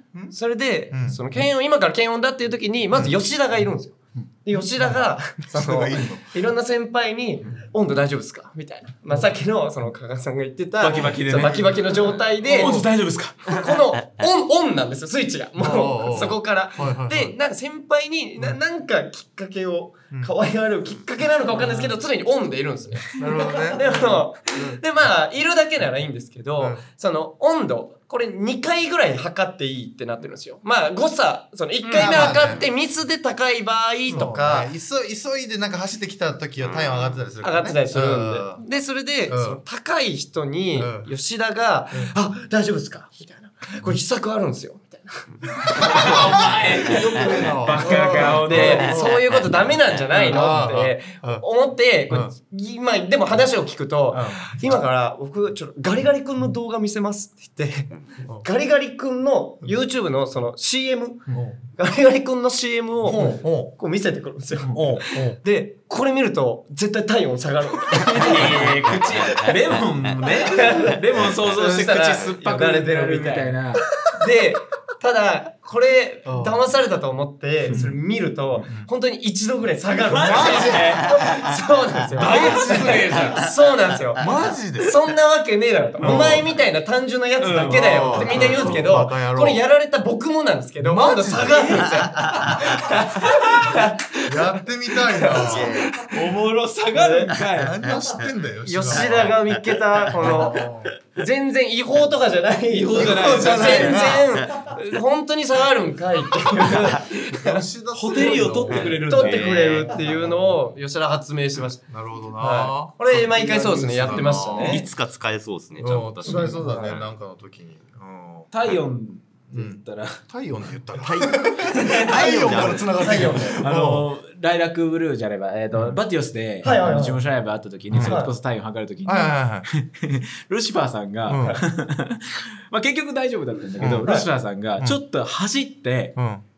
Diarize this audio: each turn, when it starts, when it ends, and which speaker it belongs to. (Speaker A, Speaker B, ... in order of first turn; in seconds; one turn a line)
Speaker A: 0.3-12.8
Speaker B: 0.9-1.2
Speaker B: 5.5-6.4
Speaker C: 10.8-11.8
Speaker B: 10.9-12.9
Speaker C: 12.4-13.4
Speaker A: 13.5-34.7
Speaker D: 13.5-14.3
Speaker B: 15.6-17.4
Speaker B: 21.5-21.9
Speaker B: 23.1-24.8
Speaker C: 31.8-32.4
Speaker B: 32.0-32.7
Speaker B: 34.1-38.6
Speaker D: 36.6-37.2
Speaker A: 37.4-46.2
Speaker B: 39.3-39.6
Speaker B: 40.8-41.1
Speaker C: 45.8-48.9
Speaker B: 45.8-49.2
Speaker D: 47.1-47.5
Speaker A: 47.8-69.2
Speaker D: 48.7-50.0
Speaker B: 50.1-51.5
Speaker B: 54.1-54.5
Speaker B: 61.3-61.6
Speaker B: 63.0-63.7
Speaker B: 64.7-65.4
Speaker C: 68.1-73.9
Speaker D: 68.2-71.3
Speaker A: 70.5-96.1
Speaker B: 76.3-76.6
Speaker C: 77.7-77.9
Speaker B: 77.7-78.0
Speaker C: 80.1-81.2
Speaker B: 80.2-81.0
Speaker C: 82.2-83.4
Speaker B: 82.2-83.3
Speaker B: 84.2-85.0
Speaker C: 86.0-86.4
Speaker B: 86.0-86.5
Speaker C: 87.4-88.8
Speaker B: 87.7-89.6
Speaker B: 90.8-91.9
Speaker C: 91.4-91.9
Speaker D: 92.2-92.5
Speaker C: 93.3-93.7
Speaker B: 94.2-96.0
Speaker D: 95.3-95.9
Speaker C: 96.0-97.8
Speaker A: 96.9-97.3
Speaker B: 97.5-99.5
Speaker D: 97.8-98.3
Speaker A: 98.7-107.7
Speaker D: 99.0-99.6
Speaker B: 100.2-100.9
Speaker D: 100.2-100.5
Speaker C: 102.7-104.1
Speaker B: 102.9-104.3
Speaker B: 107.3-109.0
Speaker C: 107.9-109.8
Speaker D: 108.7-109.9
Speaker A: 108.9-111.8
Speaker B: 110.0-110.5
Speaker B: 111.9-114.8
Speaker A: 112.4-114.9
Speaker D: 114.6-117.1
Speaker B: 115.8-118.5
Speaker A: 116.3-117.0
Speaker C: 118.5-120.2
Speaker B: 119.5-124.1
Speaker D: 121.0-123.4
Speaker C: 121.9-122.1
Speaker A: 122.5-123.6
Speaker C: 123.6-136.2
Speaker B: 125.7-126.0
Speaker A: 126.6-127.2
Speaker B: 127.9-128.2
Speaker A: 128.0-128.3
Speaker B: 129.1-129.7
Speaker B: 131.3-131.6
Speaker B: 133.8-134.1
Speaker B: 136.2-136.4